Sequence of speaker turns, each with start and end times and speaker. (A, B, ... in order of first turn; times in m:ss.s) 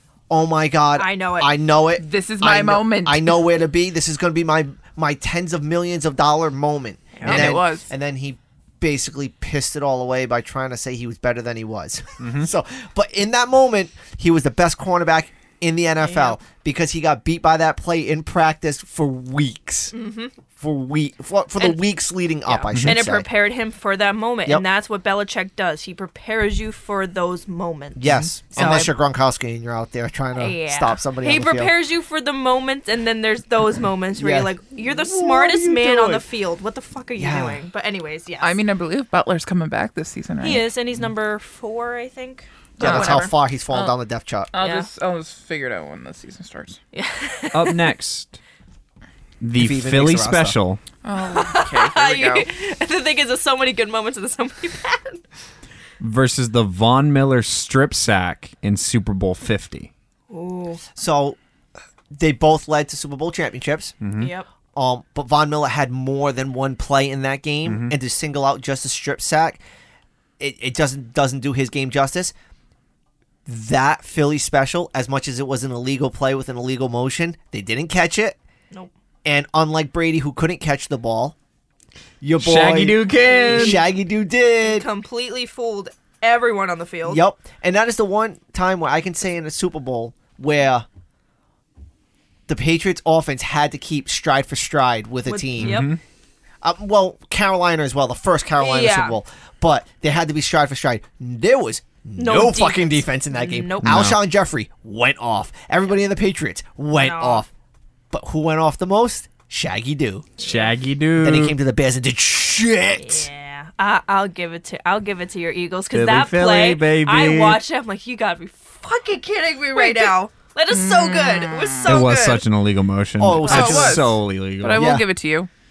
0:00.3-0:19.9 A
0:01.0-0:01.5 B
0:01.9-0:03.4 C
0:07.2-0:07.5 B
0:07.2-0:07.9 C
0:12.2-0:12.5 D
0:16.0-0:16.4 B
0:19.9-0:20.3 B
0:20.6-0:23.2 A
0:22.4-0:28.9 B
0:22.7-0:23.0 D
0:28.0-0:31.7 A
0:28.0-0:28.3 D
0:28.6-0:28.9 C
0:30.3-0:38.6 B
0:34.2-0:36.2 A
0:37.2-0:37.6 A
0:38.4-0:40.6 C
0:40.4-0:43.3 B
0:42.8-0:44.5 A
0:42.8-0:44.0 C
0:44.5-0:46.8 C
0:44.6-0:44.9 B
0:46.9-0:47.8 B
0:47.5-0:48.4 D
0:49.4-0:50.8 D
0:49.6-0:50.6 A
0:51.0-0:52.5 C
0:51.2-0:55.2 B
0:56.0-0:59.9 D
1:00.3-1:00.8 B
1:01.0-1:01.4 A
1:02.1-1:03.9 A
1:04.0-1:04.3 D
1:04.2-1:04.5 B
1:04.7-1:09.6 A
1:07.6-1:07.9 D
1:10.4-1:12.3 A
1:13.4-1:18.4 A
1:19.2-1:21.3 A
1:22.2-1:24.9 A
1:22.4-1:23.8 D
1:23.2-1:23.8 B
1:24.6-1:27.2 B
1:27.0-1:30.8 A
1:32.5-1:35.9 A
1:35.2-1:35.9 B
1:35.6-1:36.0 D
1:36.6-1:47.5 A
1:38.6-1:39.2 B
1:42.2-1:44.0 B
1:43.8-1:44.2 D
1:47.0-1:47.4 B
1:48.1-1:50.3 A
1:50.4-1:51.6 D
1:50.4-1:50.7 B
1:51.2-1:53.3 A
1:53.0-2:02.4 B
1:55.9-1:57.6 D
1:59.7-2:00.1 C
2:00.7-2:01.9 C
2:01.8-2:04.9 D
2:03.2-2:04.0 A
2:03.4-2:03.7 B
2:03.4-2:05.5 C
2:04.7-2:05.0 A